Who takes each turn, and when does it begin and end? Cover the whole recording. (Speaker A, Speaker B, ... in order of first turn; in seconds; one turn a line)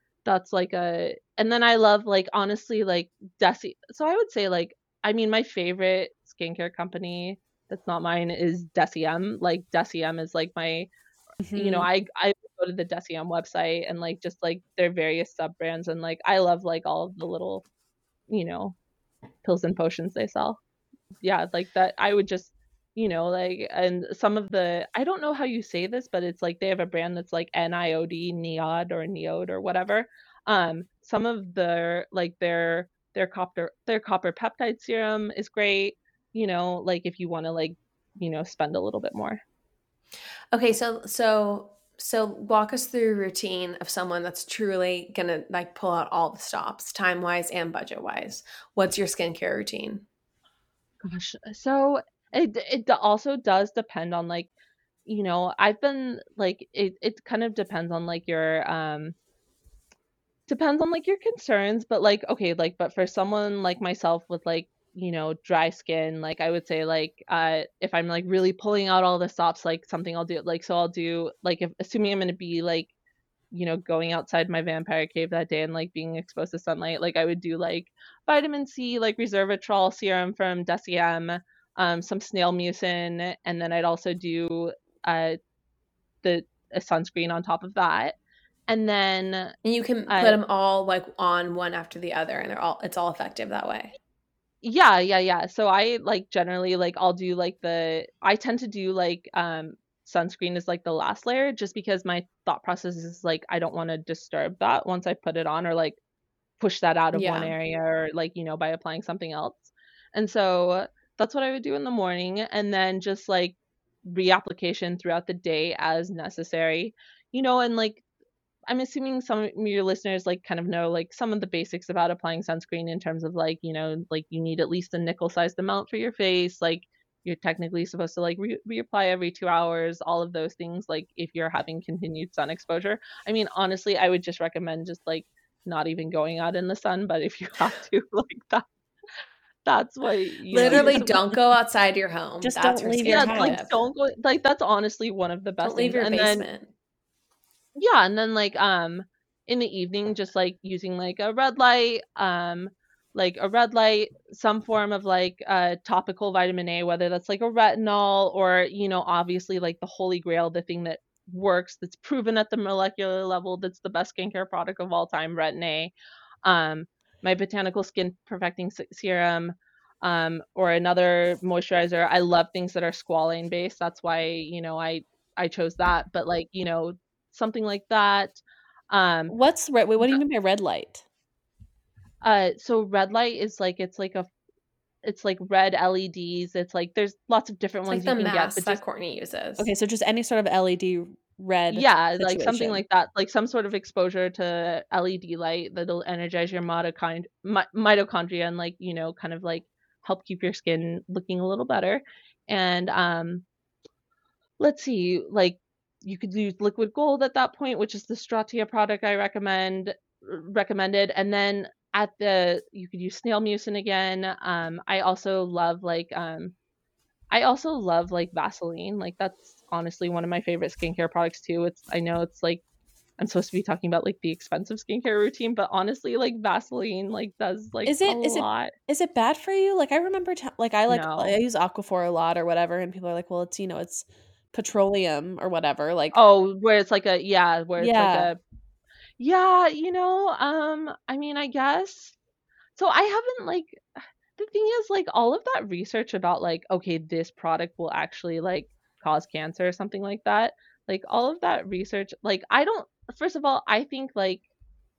Speaker A: 0.2-10.9
Speaker B: 11.4-11.9
Speaker A: 11.6-17.6
Speaker A: 18.3-18.8
Speaker A: 19.4-20.6
Speaker A: 21.2-39.4
Speaker C: 40.5-50.0
Speaker A: 51.0-54.5
Speaker A: 55.1-59.1
Speaker A: 60.5-72.9
Speaker A: 73.5-85.4
Speaker A: 86.2-88.2
Speaker A: 88.7-89.5
Speaker C: 89.7-93.9
Speaker A: 90.1-90.4
Speaker A: 94.6-106.0
Speaker A: 106.6-118.0
Speaker C: 107.1-107.5
Speaker A: 118.7-138.7
Speaker A: 139.7-141.1
Speaker C: 140.5-143.8
Speaker B: 140.6-141.2
Speaker B: 142.4-143.6
Speaker A: 143.1-146.5
Speaker C: 145.6-146.7
Speaker A: 147.8-179.3
Speaker B: 179.3-181.0
Speaker A: 182.2-184.3
Speaker A: 185.0-188.8
Speaker C: 187.9-189.7
Speaker B: 189.6-192.8
Speaker A: 191.7-203.4
Speaker A: 204.6-216.5
Speaker A: 217.3-222.6
Speaker A: 223.2-228.7
Speaker B: 227.8-236.2
Speaker A: 230.9-231.3
Speaker A: 236.1-238.4
Speaker B: 237.8-238.3
Speaker A: 239.2-242.2
Speaker A: 242.8-243.8
Speaker A: 244.4-254.4